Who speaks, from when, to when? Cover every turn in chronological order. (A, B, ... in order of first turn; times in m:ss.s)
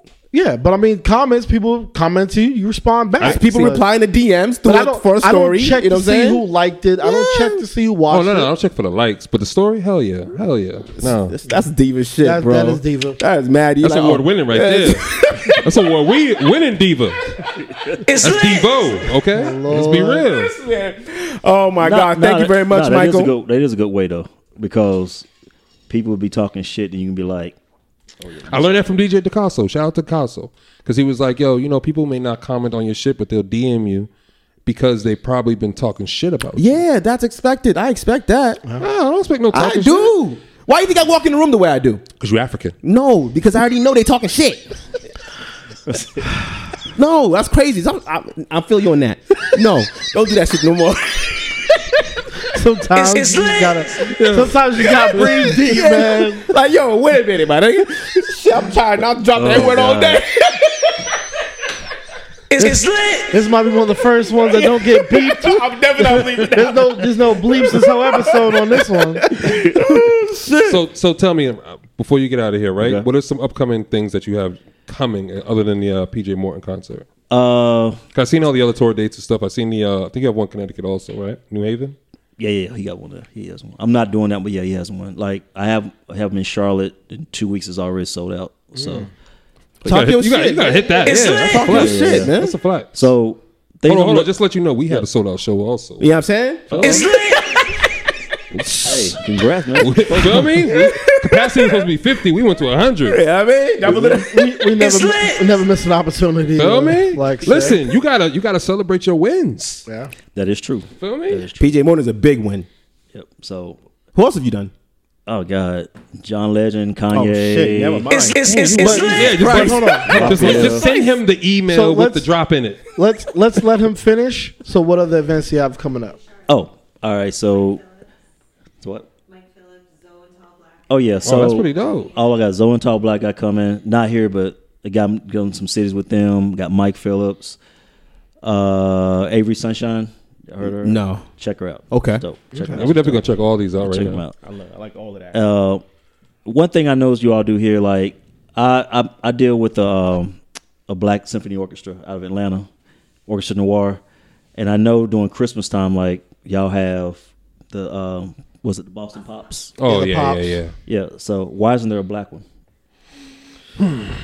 0:00.3-0:03.8 A
0:03.2-0:06.4 B
0:04.6-0:08.5 A
0:07.0-0:07.6 B
0:08.1-0:11.3 C
0:11.0-0:15.9 B
0:12.2-0:13.2 A
0:13.8-0:17.3 C
0:17.5-0:18.0 D
0:18.1-0:18.9 E
0:18.2-0:20.5 C
0:19.4-0:20.2 A
0:20.1-0:23.3 B
0:21.8-0:25.3 D
0:25.9-0:27.6 D
0:28.2-0:28.8 D
0:28.5-0:34.1 C
0:34.6-0:36.8 C
0:36.6-0:38.6 B
0:38.8-0:40.1 C
0:39.5-0:42.0 B
0:42.2-0:42.7 C
0:42.8-0:44.7 B
0:46.9-0:52.1 B
0:52.5-0:56.5 A
0:53.0-0:53.8 E
0:54.1-0:54.5 C
0:54.8-1:01.1 B
0:59.3-1:00.2 D
1:02.5-1:03.3 E
1:03.3-1:09.2 A
1:04.4-1:10.7 B
1:09.4-1:09.7 D
1:10.6-1:17.1 C
1:12.8-1:13.0 D
1:17.3-1:18.0 D
1:18.1-1:22.0 C
1:22.4-1:29.1 D
1:28.8-1:29.0 A
1:29.8-1:32.5 B
1:29.8-1:33.1 C
1:31.6-1:32.3 D
1:32.9-1:34.3 D
1:33.8-1:36.1 C
1:36.0-1:37.8 B
1:36.7-1:37.1 D
1:36.7-1:37.1 C
1:38.5-1:39.2 B
1:38.8-1:40.5 D
1:39.8-1:43.2 C
1:40.4-1:41.8 B
1:43.1-1:44.7 B
1:43.9-1:47.7 A
1:46.6-1:49.8 C
1:49.8-1:50.1 A
1:50.4-1:51.8 D
1:51.0-1:51.4 C
1:51.6-1:52.7 B
1:53.1-1:53.8 D
1:54.1-1:54.7 B
1:55.3-1:58.1 D
1:57.1-2:00.8 B
1:58.1-1:59.2 E
1:58.4-2:00.8 A
1:59.1-2:02.8 C
2:00.1-2:00.9 D
2:01.7-2:02.3 A
2:02.9-2:06.2 A
2:06.2-2:06.4 F
2:06.5-2:07.8 D
2:07.7-2:08.0 F
2:08.8-2:09.1 D
2:09.3-2:12.1 F
2:10.9-2:17.6 D
2:11.2-2:12.1 C
2:18.4-2:24.4 D
2:20.8-2:21.2 B
2:21.9-2:22.2 B
2:22.5-2:22.8 A
2:22.7-2:24.2 C
2:24.4-2:25.4 B
2:25.3-2:25.8 D
2:26.4-2:32.7 D
2:33.3-2:34.0 D
2:34.5-2:39.7 D
2:39.8-2:40.7 C
2:39.9-2:40.6 A
2:40.8-2:42.4 D